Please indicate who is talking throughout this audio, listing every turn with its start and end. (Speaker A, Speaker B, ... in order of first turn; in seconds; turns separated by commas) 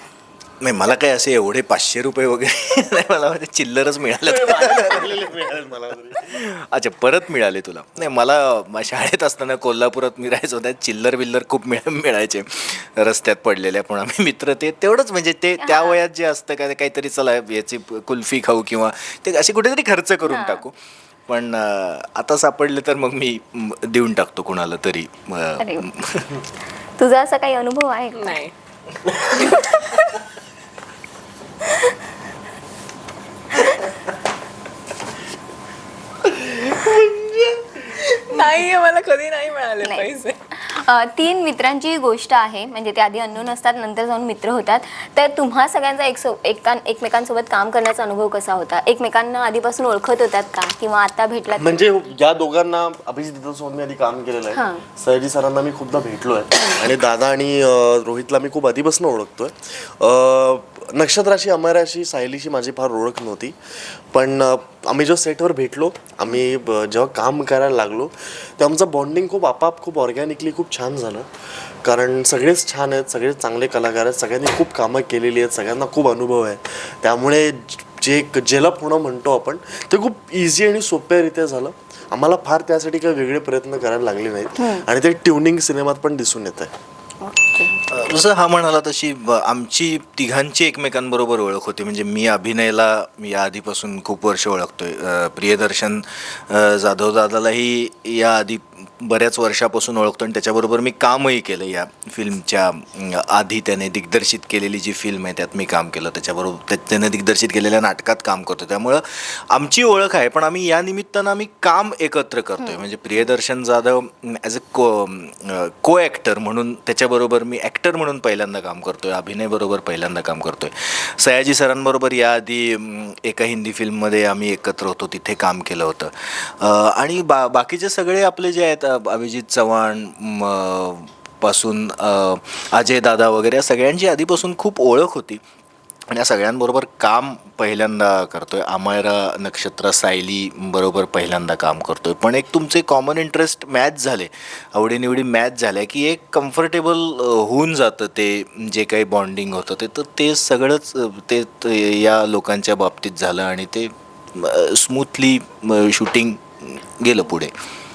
Speaker A: 0.6-5.4, Speaker B: 4.2-6.2, Speaker A: 6.2-20.7, Speaker C: 15.6-16.0, Speaker C: 20.3-20.7, Speaker A: 21.3-26.4, Speaker C: 25.6-25.9, Speaker C: 27.0-28.4, Speaker D: 28.1-28.5, Speaker C: 29.2-30.1, Speaker C: 31.7-31.9, Speaker D: 36.3-40.4, Speaker C: 39.8-51.8, Speaker B: 51.6-63.6, Speaker C: 54.5-54.9, Speaker B: 64.1-71.3, Speaker B: 71.8-86.7, Speaker C: 84.6-84.9, Speaker C: 87.2-87.8, Speaker A: 87.9-135.4, Speaker C: 112.6-112.9, Speaker A: 136.1-157.5